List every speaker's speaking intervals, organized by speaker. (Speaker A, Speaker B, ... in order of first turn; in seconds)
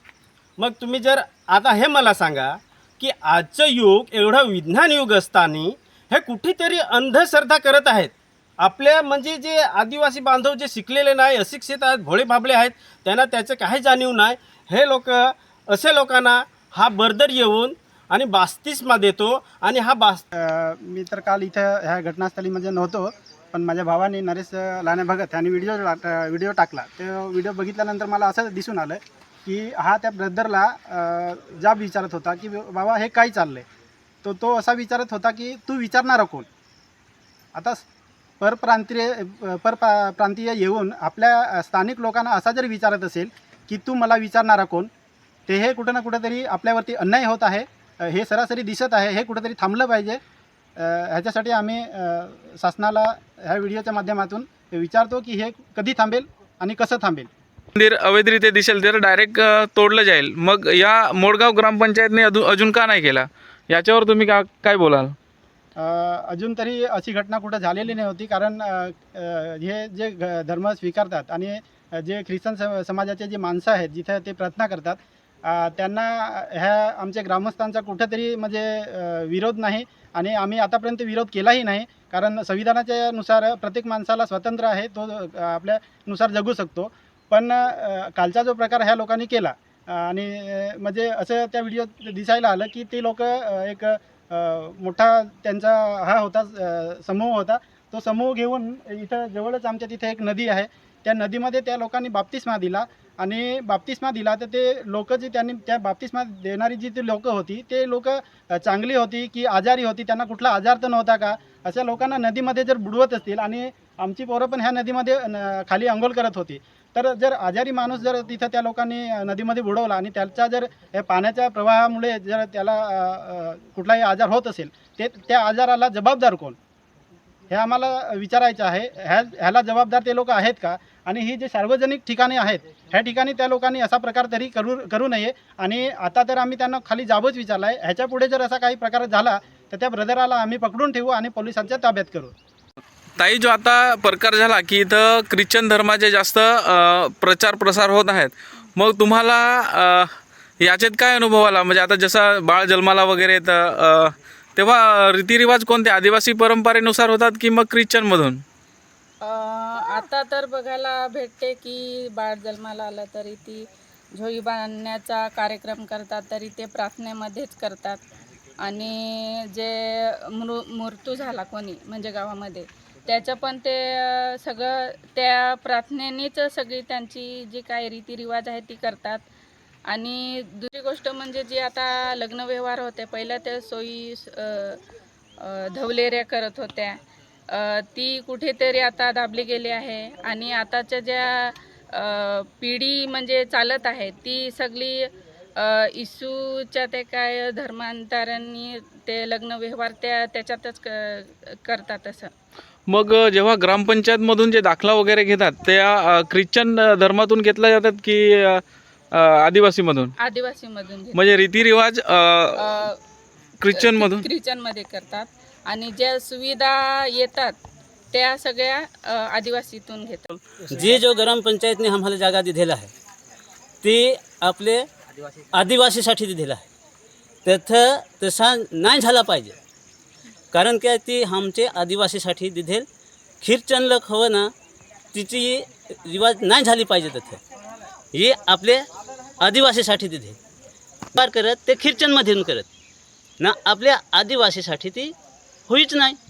Speaker A: 0.6-20.2
Speaker B: 20.3-33.6, 34.2-36.5, 37.5-37.8, 38.4-44.9, 45.5-50.2, 50.8-57.3, 65.8-126.5, 127.5-142.3
Speaker C: 57.8-65.1, 143.2-158.4, 202.9-210.1, 211.1-212.7, 213.6-214.2
Speaker D: 159.2-168.0, 168.6-179.2, 179.9-184.8, 185.4-202.3, 210.2-211.4, 212.6-213.0, 213.7-217.6, 218.1-220.4
Speaker E: 220.7-222.9, 223.8-224.9, 225.5-226.6, 227.4-229.6, 230.5-232.8, 233.4-234.5, 235.1-237.4, 238.1-238.8, 239.4-240.4, 241.1-242.7, 243.4-245.1, 245.7-246.2